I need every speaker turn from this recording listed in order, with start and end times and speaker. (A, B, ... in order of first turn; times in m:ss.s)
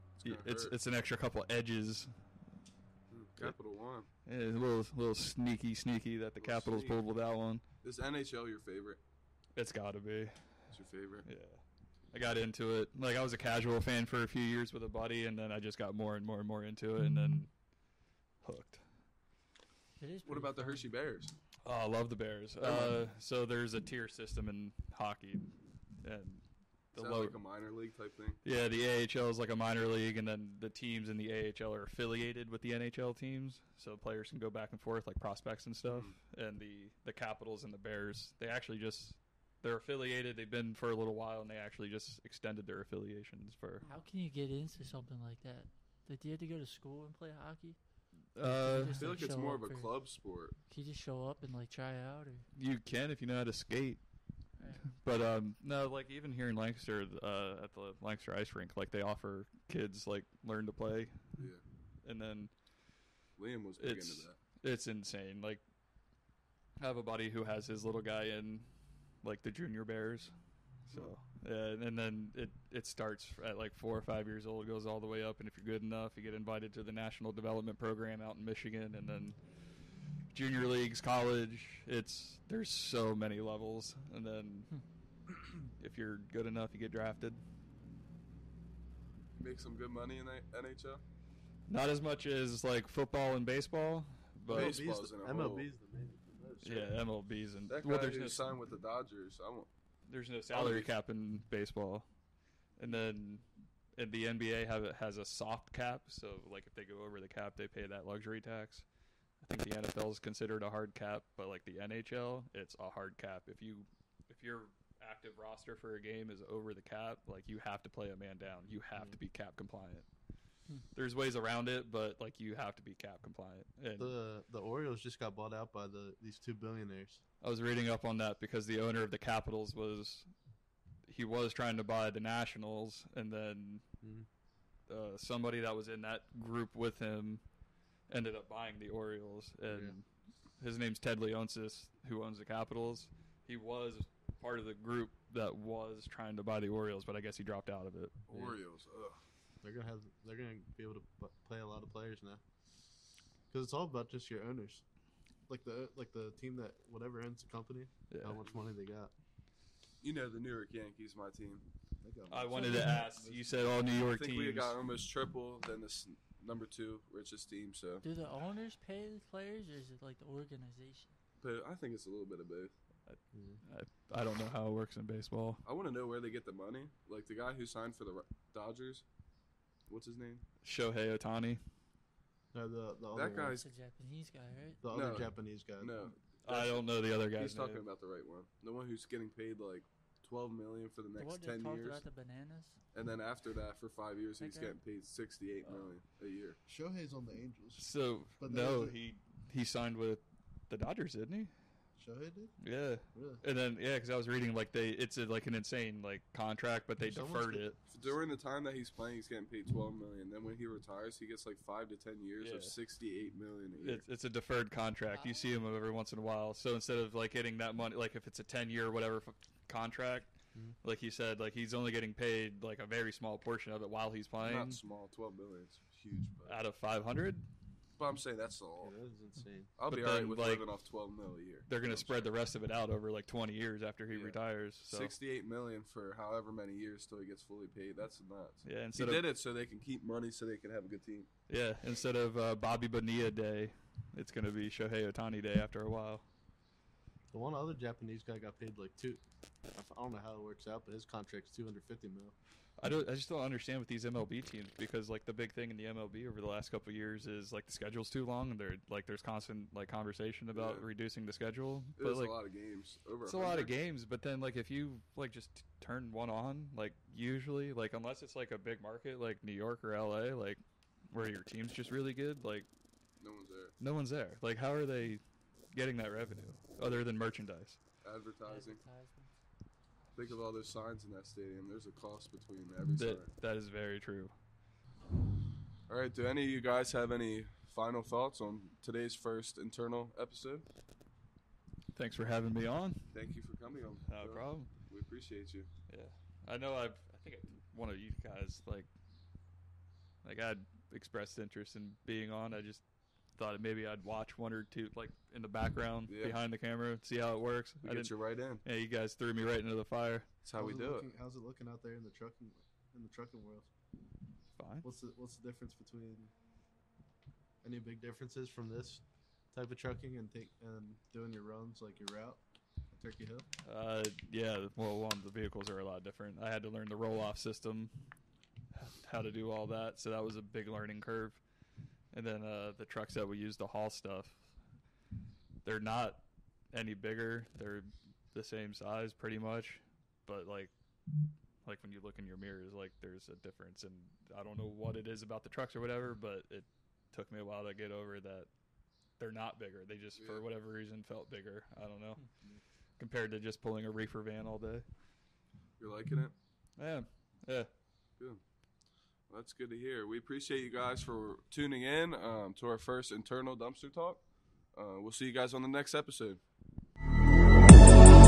0:00.2-0:00.8 A
0:00.2-0:02.1 B
0:03.1-0:04.1 A
0:04.2-0:07.6 B
0:06.4-0:07.0 A
0:07.8-0:09.0 A
0:09.6-0:10.4 B
0:10.7-0:11.3 A
0:11.2-0:17.5 B
0:18.4-0:18.8 B
0:20.0-0:20.8 C
0:20.2-0:21.3 A
0:21.6-0:27.4 B
0:22.6-0:23.0 A
0:27.0-0:28.4 A
0:28.4-0:43.8 B
0:35.8-0:36.2 A
0:43.8-0:47.8 C
0:48.3-0:49.1 B
0:48.4-0:50.0 C
0:48.9-0:50.6 A
0:50.7-0:52.5 C
0:52.5-0:54.0 B
0:54.6-0:54.9 C
0:54.9-1:01.3 B
1:01.4-1:01.6 A
1:02.0-1:02.5 B
1:03.4-1:04.4 A
1:03.8-1:05.6 B
1:06.8-1:08.7 B
1:09.2-1:10.3 B
1:10.9-1:11.1 A
1:10.9-1:19.4 B
1:20.3-1:24.7 B
1:25.8-1:27.4 B
1:29.4-1:31.0 A
1:31.7-1:34.8 B
1:34.5-1:36.9 D
1:34.5-1:35.7 A
1:36.6-1:38.4 B
1:37.7-1:39.7 A
1:40.1-1:42.0 B
1:40.5-1:40.9 A
1:42.8-1:48.8 B
1:49.4-2:00.1 B
2:00.9-2:04.2 B
2:04.0-2:07.2 D
2:07.4-2:10.3 B
2:11.1-2:13.8 B
2:14.0-2:14.3 D
2:14.9-2:17.4 B
2:18.1-2:20.0 B
2:19.7-2:20.0 D
2:20.6-2:28.1 B
2:28.3-2:29.2 A
2:28.3-2:28.6 D
2:29.6-2:32.4 D
2:33.5-2:34.8 D
2:35.5-2:39.1 D
2:38.1-2:38.4 B
2:40.0-2:41.6 A
2:42.0-2:43.6 D
2:42.3-2:44.8 B
2:42.5-2:43.0 C
2:43.9-2:48.0 A
2:48.0-2:51.1 C
2:51.4-2:52.7 A
2:53.0-2:55.6 B
2:53.3-2:53.6 D
2:55.6-2:59.0 A
2:59.9-3:00.4 A
3:00.6-3:01.6 B
3:02.5-3:03.6 D
3:03.1-3:03.6 A
3:03.3-3:04.8 C
3:04.8-3:06.0 D
3:04.9-3:12.0 A
3:06.4-3:07.8 B
3:11.2-3:12.8 C
3:12.9-3:16.6 A
3:14.4-3:14.8 C
3:16.7-3:19.0 D
3:17.8-3:21.5 B
3:22.0-3:22.5 D
3:22.6-3:27.8 B
3:23.1-3:23.4 D
3:27.0-3:27.7 D
3:27.9-3:34.0 A
3:32.4-3:32.7 B
3:33.8-3:40.3 B
3:35.1-3:35.5 C
3:40.8-3:44.8 B
3:44.4-3:46.6 A
3:46.4-3:47.4 B
3:48.0-3:48.9 A
3:48.8-3:49.7 D
3:49.8-3:52.4 A
3:49.9-3:50.7 B
3:51.7-3:55.1 B
3:54.1-4:01.3 A
3:58.6-3:59.2 B
4:01.5-4:06.2 B
4:07.3-4:12.3 D
4:12.8-4:22.4 B
4:20.5-4:20.9 A
4:22.0-4:23.7 A
4:23.2-4:32.7 B
4:33.2-4:33.7 A
4:33.8-4:37.8 B
4:38.0-4:38.8 A
4:38.4-4:39.3 C
4:40.1-4:43.3 A
4:42.9-4:44.3 B
4:45.9-4:50.6 A
4:51.9-4:53.1 B
4:53.1-4:55.7 A
4:54.1-4:54.7 B
4:55.9-4:58.9 B
5:00.2-5:02.8 B
5:03.4-5:08.1 B
5:06.0-5:06.4 A
5:07.8-5:08.6 A
5:08.6-5:10.3 B
5:10.4-5:11.1 A
5:10.6-5:13.7 D
5:14.6-5:14.9 B
5:14.8-5:16.3 D
5:17.6-5:23.5 D
5:23.6-5:27.9 B
5:28.7-5:31.4 B
5:32.1-5:34.4 B
5:35.6-5:40.7 B
5:41.6-5:48.5 B
5:49.2-5:52.2 B
5:50.2-5:50.5 A
5:53.0-5:54.8 B
5:55.8-5:56.3 A
5:56.8-5:57.7 B
5:59.3-6:04.2 A
6:04.7-6:06.4 A